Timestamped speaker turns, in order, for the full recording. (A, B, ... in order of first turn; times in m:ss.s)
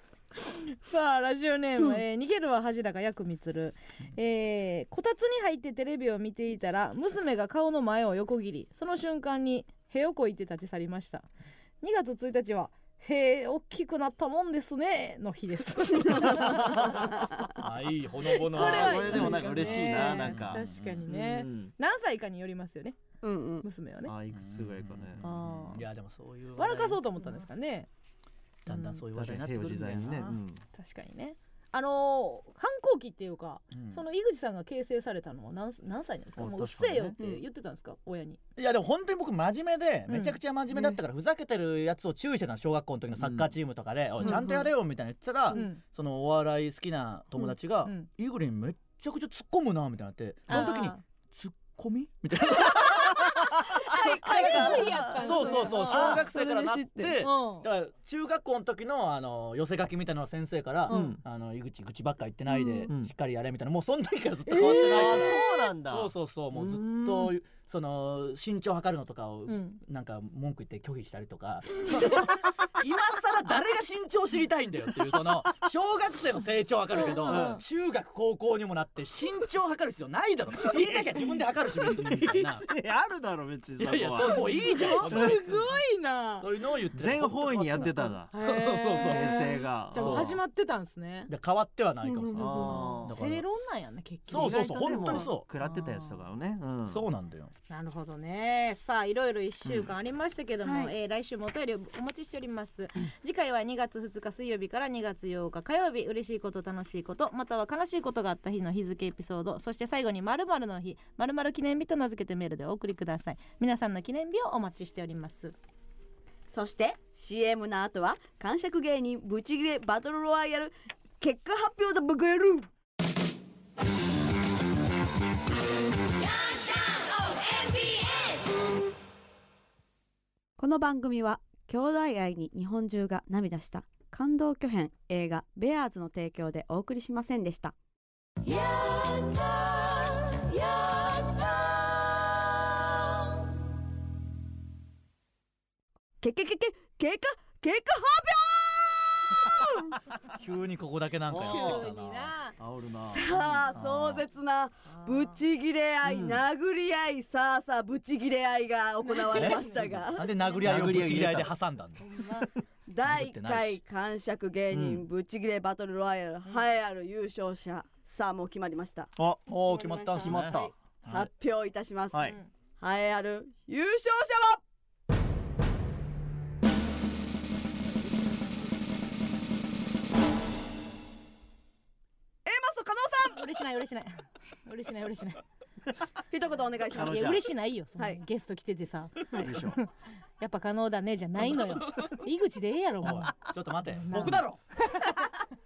0:00.4-0:11.3 A
0:11.8-0:17.3 A
0:16.4-0:17.1 B
0:16.8-0:21.0 C
0:18.2-0:23.0 A
0:18.4-0:21.7 B
0:23.2-0:23.6 D
0:23.6-0:24.1 A
0:24.0-0:25.2 B
0:24.3-0:27.0 C
0:25.2-0:25.8 A
0:26.6-0:27.9 A
0:28.6-0:30.3 C
0:28.7-0:29.0 A
0:29.1-0:30.6 B
0:30.7-0:38.4 A
0:33.7-0:34.0 C
0:36.4-0:37.2 B
0:38.6-1:22.7 C
0:40.1-0:40.4 A
0:43.2-0:43.5 B
0:44.2-0:44.6 D
0:44.2-0:44.6 A
0:45.5-0:45.8 A
0:50.5-0:51.0 A
0:53.0-0:57.1 D
0:54.0-0:56.3 A
0:55.8-0:56.3 B
0:57.2-0:57.6 A
1:00.9-1:01.1 A
1:00.9-1:01.2 B
1:04.5-1:07.3 B
1:04.6-1:05.3 D
1:09.5-1:09.8 A
1:16.9-1:17.6 A
1:17.2-1:17.6 B
1:20.7-1:25.6 B
1:23.8-1:25.6 C
1:24.2-1:26.5 A
1:26.4-1:30.4 C
1:26.9-1:28.3 B
1:28.3-1:31.3 A
1:29.0-1:30.4 B
1:31.3-1:33.4 C
1:32.0-1:33.0 D
1:32.3-1:33.2 B
1:32.7-1:35.3 A
1:34.3-1:35.4 C
1:34.3-1:37.0 B
1:36.9-1:37.5 C
1:37.7-1:55.5 A
1:40.6-1:40.9 D
1:56.5-2:02.7 D
2:10.6-2:17.7 D
2:18.6-2:20.8 D
2:26.2-2:30.0 D
2:30.3-2:32.3 C
2:31.3-2:32.6 A
2:31.3-2:31.8 B
2:32.6-2:34.2 B
2:33.1-2:40.3 D
2:35.0-2:35.3 A
2:36.0-2:36.4 B
2:39.1-2:41.2 A
2:39.3-2:42.0 C
2:40.6-2:41.5 B
2:42.0-2:42.5 A
2:42.9-2:49.1 D
2:43.0-2:43.8 C
2:44.7-2:45.0 B
2:49.2-2:49.4 B
2:49.5-2:51.3 C
2:49.6-2:50.7 A
2:50.2-2:50.7 B
2:51.1-2:54.6 D
2:52.1-2:52.4 B
3:02.4-3:03.4 D
3:03.3-3:05.4 A
3:06.3-3:07.3 D
3:06.9-3:07.4 B
3:06.9-3:09.9 A
3:09.3-3:09.6 D
3:09.4-3:09.8 B
3:10.4-3:13.3 A
3:11.6-3:12.1 C
3:13.0-3:14.6 C
3:13.9-3:15.4 A